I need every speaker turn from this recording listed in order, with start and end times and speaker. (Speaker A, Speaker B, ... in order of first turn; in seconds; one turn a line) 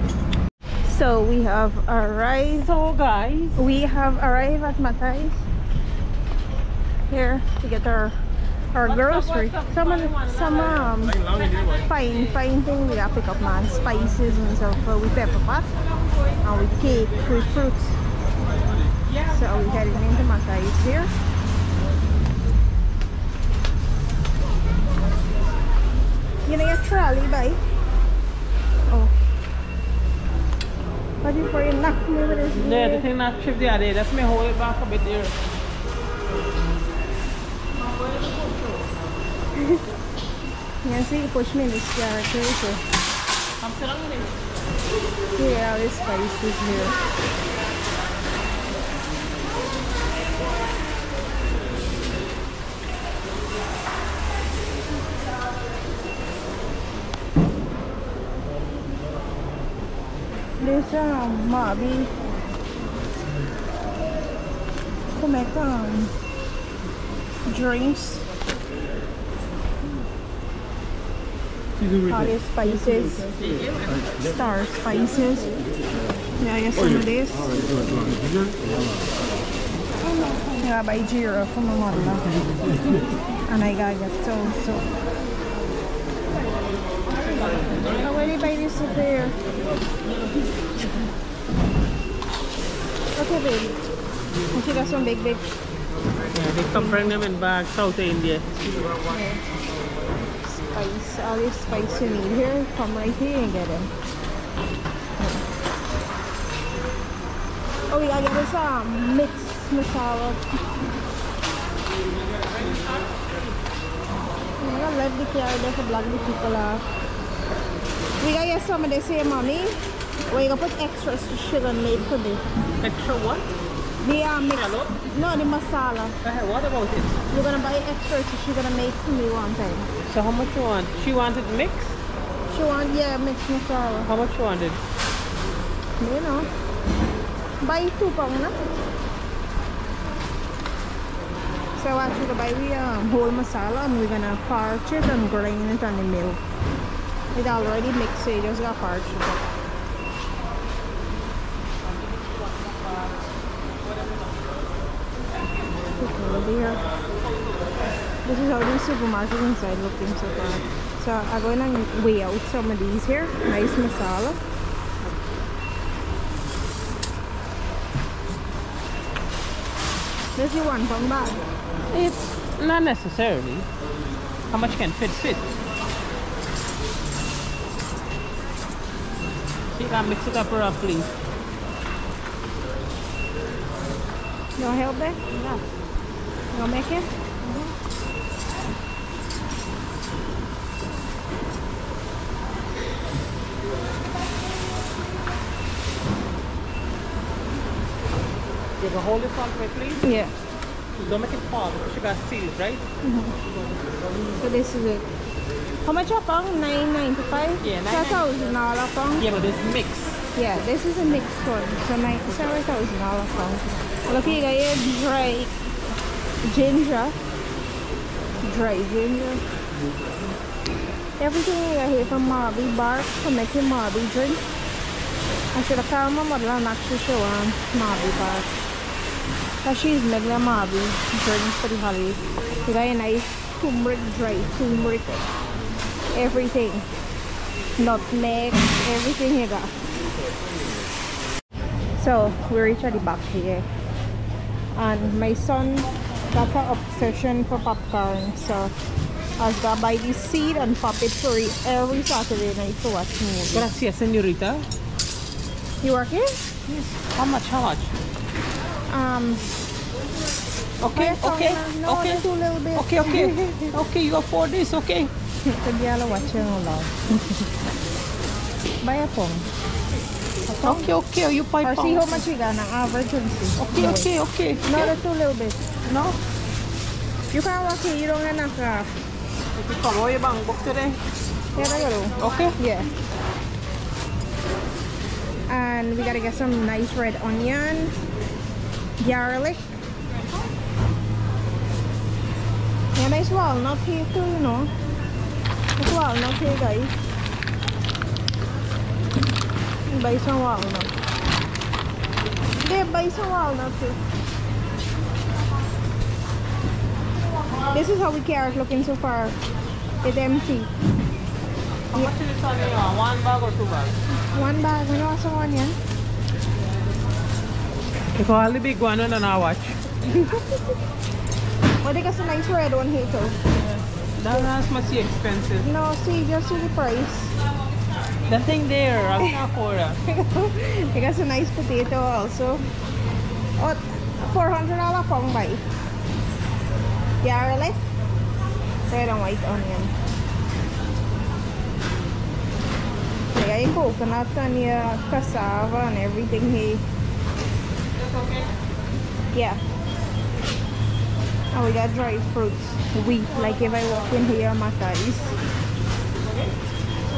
Speaker A: 0.8-2.7
Speaker B: 2.6-3.5
Speaker A: 3.6-5.4
Speaker A: 7.1-8.2
Speaker A: 8.7-11.2
Speaker B: 8.8-12.4
Speaker A: 11.8-15.7
Speaker A: 16.4-17.9
Speaker B: 19.1-19.7
Speaker A: 19.3-21.1
Speaker A: 26.5-27.6
Speaker A: 28.9-29.1
Speaker A: 31.2-33.1
Speaker B: 32.6-35.3
Speaker B: 38.0-38.9
Speaker A: 40.8-42.8
Speaker B: 43.6-44.4
Speaker A: 45.4-47.0
Speaker A: 60.6-62.1
Speaker A: 65.2-66.1
Speaker A: 67.5-68.3
Speaker A: 72.1-73.3
Speaker B: 73.4-74.0
Speaker A: 74.2-75.6
Speaker A: 76.4-77.5
Speaker A: 80.6-82.2
Speaker A: 83.5-84.9
Speaker A: 87.9-89.4
Speaker A: 93.2-93.8
Speaker A: 94.5-95.5
Speaker B: 96.3-98.5
Speaker A: 99.1-99.4
Speaker A: 100.5-103.9
Speaker A: 107.9-110.4
Speaker B: 112.5-113.5
Speaker A: 114.6-116.8
Speaker A: 118.2-119.8
Speaker A: 120.3-122.5
Speaker B: 122.8-123.5
Speaker A: 124.0-126.2
Speaker B: 124.5-124.9
Speaker B: 126.2-127.2
Speaker A: 127.3-129.9
Speaker B: 130.1-132.0
Speaker A: 132.5-134.1
Speaker B: 134.1-134.8
Speaker A: 136.0-136.5
Speaker A: 137.6-138.6
Speaker A: 141.8-146.4
Speaker A: 147.3-149.5
Speaker B: 151.8-153.3
Speaker B: 153.8-154.7
Speaker B: 155.3-155.8
Speaker A: 156.0-156.8
Speaker B: 157.2-157.8
Speaker A: 158.2-164.4
Speaker A: 170.4-171.4
Speaker B: 171.9-173.7
Speaker B: 174.5-175.5
Speaker B: 179.8-181.1
Speaker A: 184.6-185.2
Speaker B: 185.3-185.6
Speaker A: 186.5-187.6
Speaker B: 198.8-200.1
Speaker A: 200.0-200.3
Speaker B: 201.0-202.8
Speaker A: 203.0-203.3
Speaker A: 204.4-205.1
Speaker A: 205.8-209.3
Speaker B: 207.6-208.3
Speaker B: 209.2-210.2
Speaker A: 210.3-215.5
Speaker A: 216.4-217.2
Speaker A: 218.4-219.4
Speaker A: 221.2-224.4
Speaker A: 225.5-228.5
Speaker A: 229.6-235.2
Speaker A: 236.1-236.9
Speaker A: 237.8-239.7
Speaker A: 242.0-243.7
Speaker A: 244.8-248.7
Speaker A: 249.4-253.7
Speaker B: 253.5-254.7
Speaker A: 255.8-256.9
Speaker B: 257.2-257.9
Speaker A: 258.9-259.4
Speaker B: 260.8-265.1
Speaker A: 260.9-263.8
Speaker A: 265.4-267.4
Speaker A: 268.8-269.5
Speaker B: 270.5-272.2
Speaker A: 270.6-270.9
Speaker A: 271.6-274.1
Speaker B: 273.6-274.9
Speaker A: 274.6-275.7
Speaker B: 275.9-276.2
Speaker A: 277.3-278.9
Speaker B: 279.6-281.0
Speaker A: 281.6-282.9
Speaker B: 282.2-282.6
Speaker A: 285.5-288.0
Speaker A: 289.0-289.7
Speaker A: 293.0-294.7
Speaker A: 295.8-296.9
Speaker A: 299.9-300.9
Speaker A: 302.6-304.0
Speaker A: 307.7-309.4
Speaker A: 310.0-310.7
Speaker B: 311.9-314.0
Speaker A: 314.3-315.8
Speaker B: 318.1-319.8
Speaker A: 320.1-320.6
Speaker A: 321.8-323.4
Speaker B: 323.6-325.7
Speaker A: 325.6-327.3
Speaker B: 328.2-330.0
Speaker A: 330.0-332.6
Speaker A: 333.6-335.6
Speaker A: 337.2-337.9
Speaker A: 338.9-339.9
Speaker A: 343.3-346.8
Speaker B: 347.9-348.5
Speaker A: 349.3-349.6
Speaker A: 351.5-355.4
Speaker B: 356.2-356.6